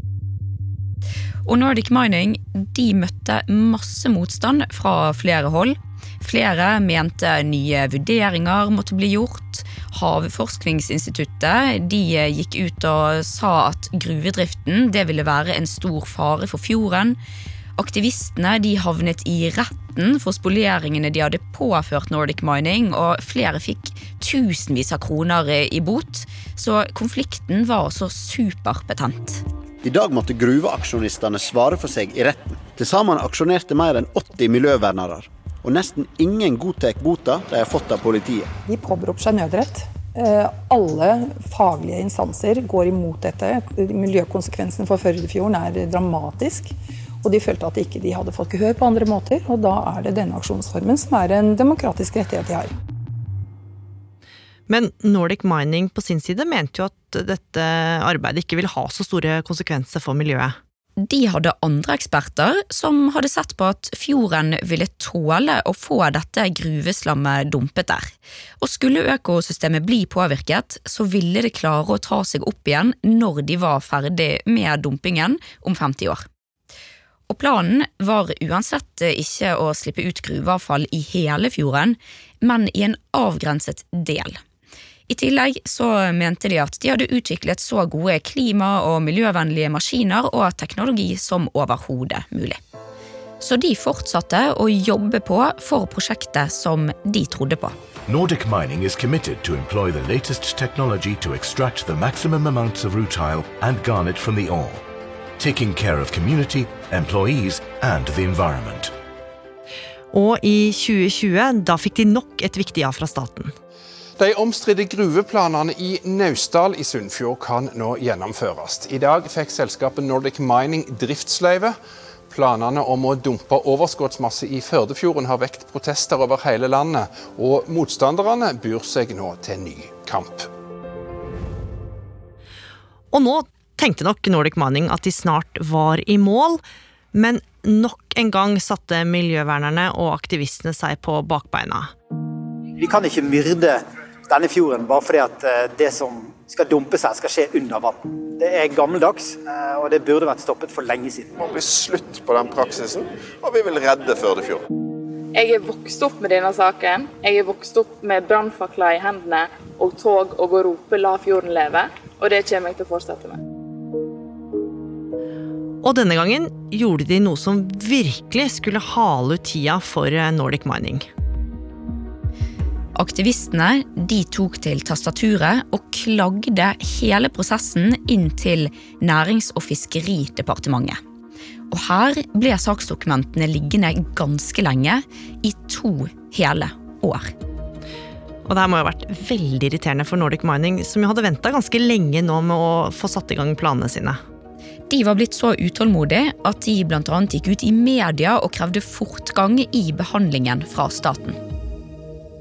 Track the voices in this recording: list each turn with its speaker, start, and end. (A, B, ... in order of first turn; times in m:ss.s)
0:01.4-0:17.2 A
0:17.8-0:29.4 A
0:29.8-0:38.5 B
0:38.7-0:52.7 C
0:54.7-1:00.6 D
1:01.0-1:16.2 A
1:17.3-1:24.4 A
1:25.1-1:32.6 A
1:33.4-1:37.7 A
1:38.1-1:44.8 E
1:45.4-1:48.9 E
1:50.1-1:53.5 D
1:54.2-2:01.7 F
2:02.4-2:10.4 F
2:13.1-2:16.6 D
2:17.1-2:21.9 D
2:22.8-2:31.3 G
2:31.4-2:34.5 H
2:35.3-2:43.4 I
2:45.8-2:51.1 D
2:53.0-3:01.0 A
3:01.7-3:07.3 A
3:08.5-3:14.2 D
3:14.9-3:21.4 A